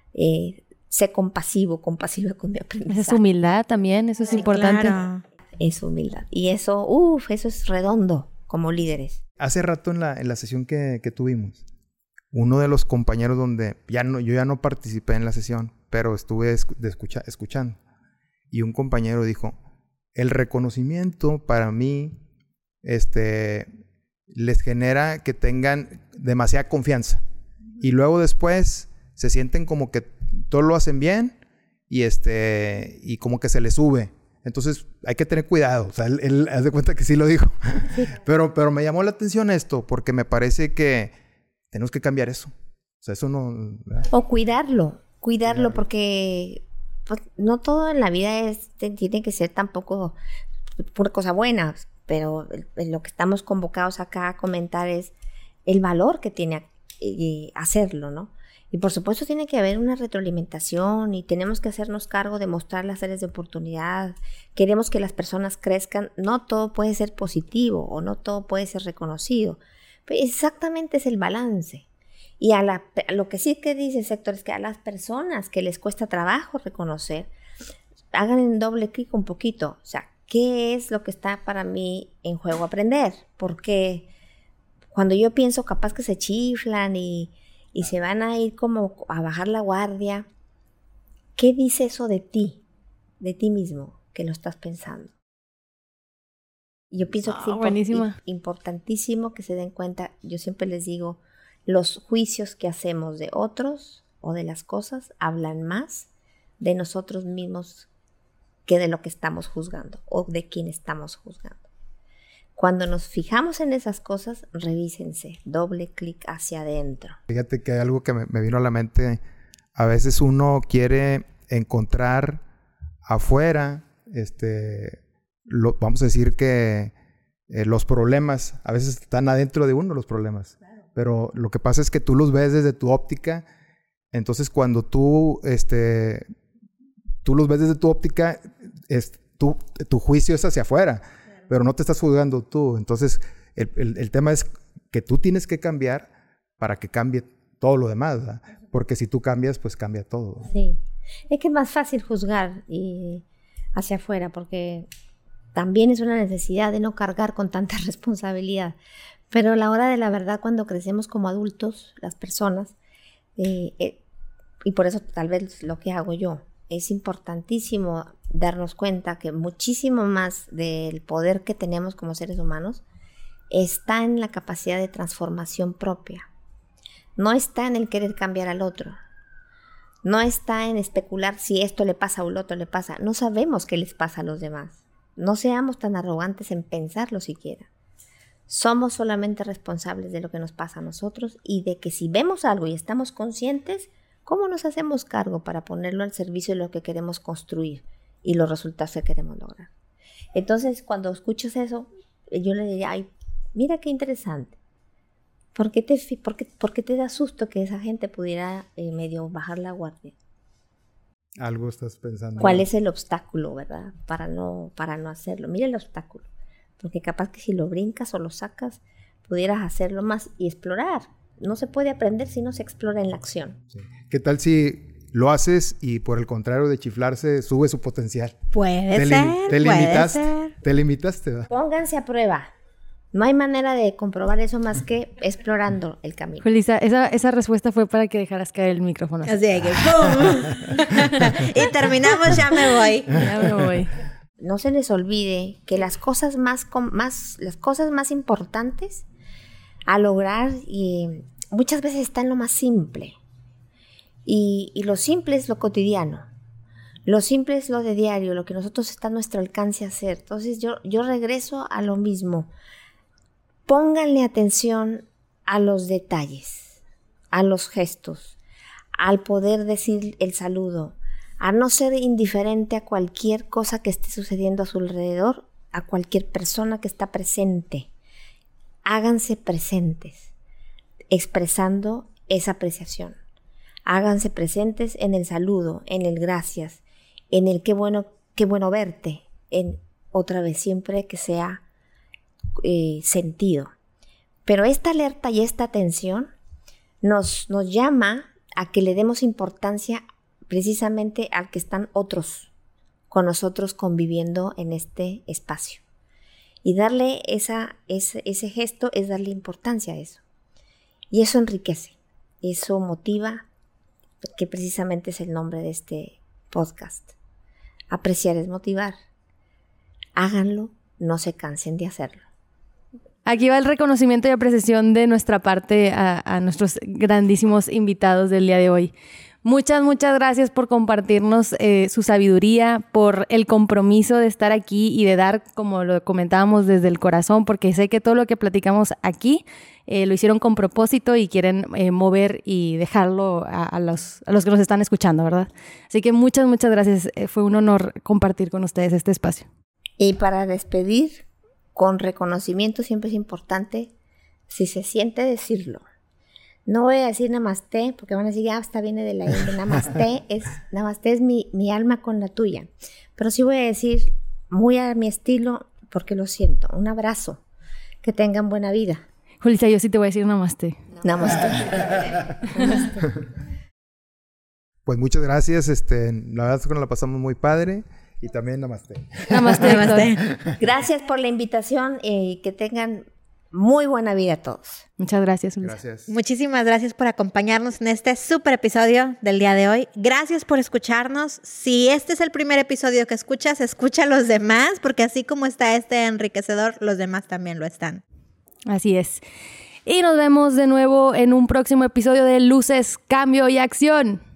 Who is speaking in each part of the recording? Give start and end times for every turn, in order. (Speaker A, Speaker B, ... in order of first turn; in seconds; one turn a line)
Speaker A: 0.1-3.2
Speaker B: 2.9-5.0
Speaker C: 4.3-5.2
Speaker A: 5.6-9.2
Speaker D: 9.4-11.6
Speaker D: 12.3-17.8
Speaker D: 18.5-19.6
Speaker D: 20.1-22.2
Speaker D: 22.8-23.7
Speaker D: 24.3-27.2
Speaker D: 27.8-31.4
Speaker D: 31.9-41.1
Speaker D: 41.7-44.1
Speaker A: 44.1-50.1
Speaker A: 50.8-55.1
Speaker A: 55.6-71.9
Speaker A: 72.4-77.3
Speaker A: 78.1-84.1
Speaker A: 84.9-90.3
Speaker A: 91.4-92.6
Speaker A: 93.2-95.1
Speaker A: 96.9-106.1
Speaker B: 97.3-98.1
Speaker A: 106.6-107.9
Speaker A: 108.7-111.7
Speaker A: 112.5-117.2
Speaker D: 117.3-119.2
Speaker D: 119.7-122.4
Speaker D: 123.0-126.9
Speaker D: 127.5-133.4
Speaker D: 134.1-136.3
Speaker D: 137.2-150.5
Speaker A: 150.5-153.2
Speaker A: 153.7-154.9
Speaker A: 155.5-158.8
Speaker A: 159.3-162.7
Speaker A: 163.4-164.0
Speaker A: 164.6-172.8
Speaker A: 173.5-176.3
Speaker A: 177.2-179.0
Speaker A: 180.0-187.7
Speaker A: 188.5-199.7
Speaker A: 200.3-204.6
Speaker A: 205.6-210.1
Speaker D: 211.4-212.7
Speaker A: 212.4-216.3
Speaker A: 216.8-223.6
Speaker D: 223.7-228.4
Speaker C: 228.5-230.5
Speaker D: 228.9-231.5
Speaker A: 231.5-232.5
Speaker A: 233.1-236.4
Speaker B: 236.4-240.1
Speaker C: 239.3-243.2
Speaker B: 243.1-243.9
Speaker A: 244.4-249.1
Speaker A: 249.9-253.2
Speaker A: 254.3-256.3
Speaker A: 257.1-262.5
Speaker A: 263.7-266.8
Speaker A: 267.3-268.4
Speaker A: 269.0-277.9
Speaker A: 278.9-280.3
Speaker A: 281.1-283.2
Speaker A: 283.9-291.6
Speaker A: 292.6-293.7
Speaker A: 294.4-296.3
Speaker A: 297.0-302.5
Speaker A: 303.1-305.8
Speaker A: 306.6-310.2
Speaker A: 311.1-313.5
Speaker A: 314.4-317.1
Speaker A: 317.9-318.9
Speaker A: 320.1-322.2
Speaker B: 323.2-328.9
Speaker B: 329.4-349.5
Speaker A: 350.0-353.9
Speaker A: 354.5-355.8
Speaker A: 356.6-367.4
Speaker A: 368.0-369.0
Speaker B: 369.4-370.8
Speaker A: 371.0-372.0
Speaker A: 372.6-372.9
Speaker D: 374.9-380.6
Speaker B: 379.3-380.1
Speaker C: 379.6-380.2
Speaker A: 380.6-384.8
Speaker B: 385.0-385.8
Speaker D: 385.6-386.1
Speaker C: 386.1-398.0
Speaker B: 398.7-399.2
Speaker B: 399.8-404.2